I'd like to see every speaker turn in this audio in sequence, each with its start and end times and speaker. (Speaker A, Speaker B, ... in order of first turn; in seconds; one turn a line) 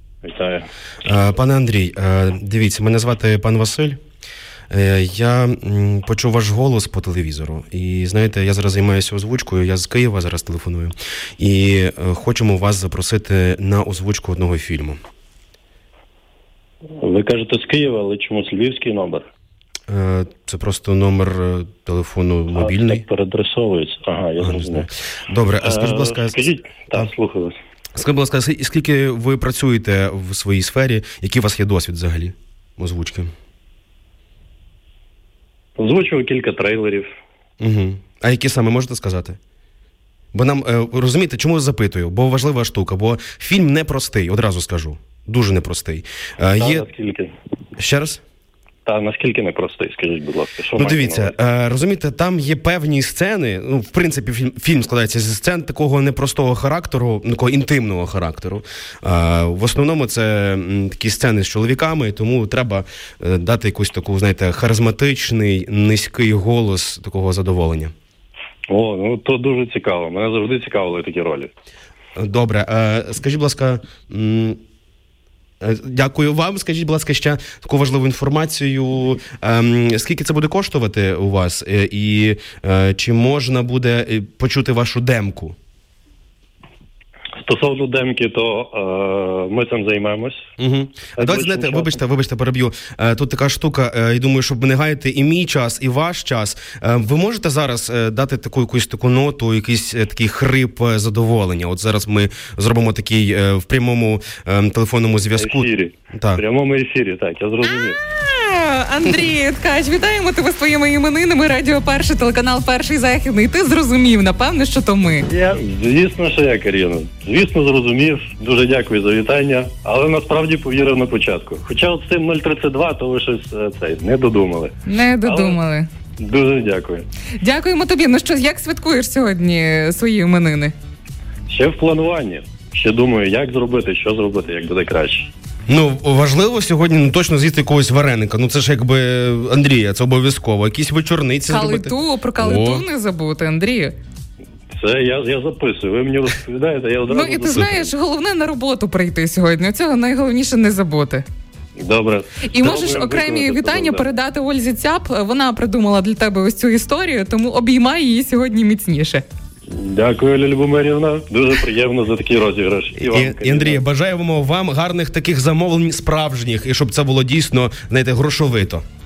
Speaker A: 0.2-0.7
Speaker B: 1.0-4.0
Speaker B: 4.7-15.0
Speaker A: 17.0-19.3
Speaker B: 19.9-23.0
Speaker A: 22.5-24.9
Speaker B: 24.4-27.1
Speaker A: 25.6-27.6
Speaker B: 27.9-33.3
Speaker A: 35.8-37.1
Speaker B: 37.6-39.4
Speaker B: 40.3-46.9
Speaker A: 46.6-47.3
Speaker B: 47.8-48.2
Speaker A: 48.9-51.4
Speaker B: 50.8-67.9
Speaker A: 68.7-71.5
Speaker B: 72.2-74.6
Speaker B: 75.6-85.5
Speaker A: 87.4-90.5
Speaker B: 90.6-106.4
Speaker A: 91.2-92.0
Speaker A: 105.4-108.0
Speaker C: 108.0-115.3
Speaker A: 115.3-125.6
Speaker C: 124.9-125.9
Speaker A: 126.2-127.1
Speaker C: 127.4-130.7
Speaker A: 131.5-135.3
Speaker B: 135.7-142.9
Speaker C: 141.5-143.9
Speaker A: 144.7-147.8
Speaker C: 147.1-151.2
Speaker B: 147.5-147.9
Speaker A: 151.8-154.1
Speaker C: 152.4-159.2
Speaker A: 159.7-163.8
Speaker B: 163.0-168.8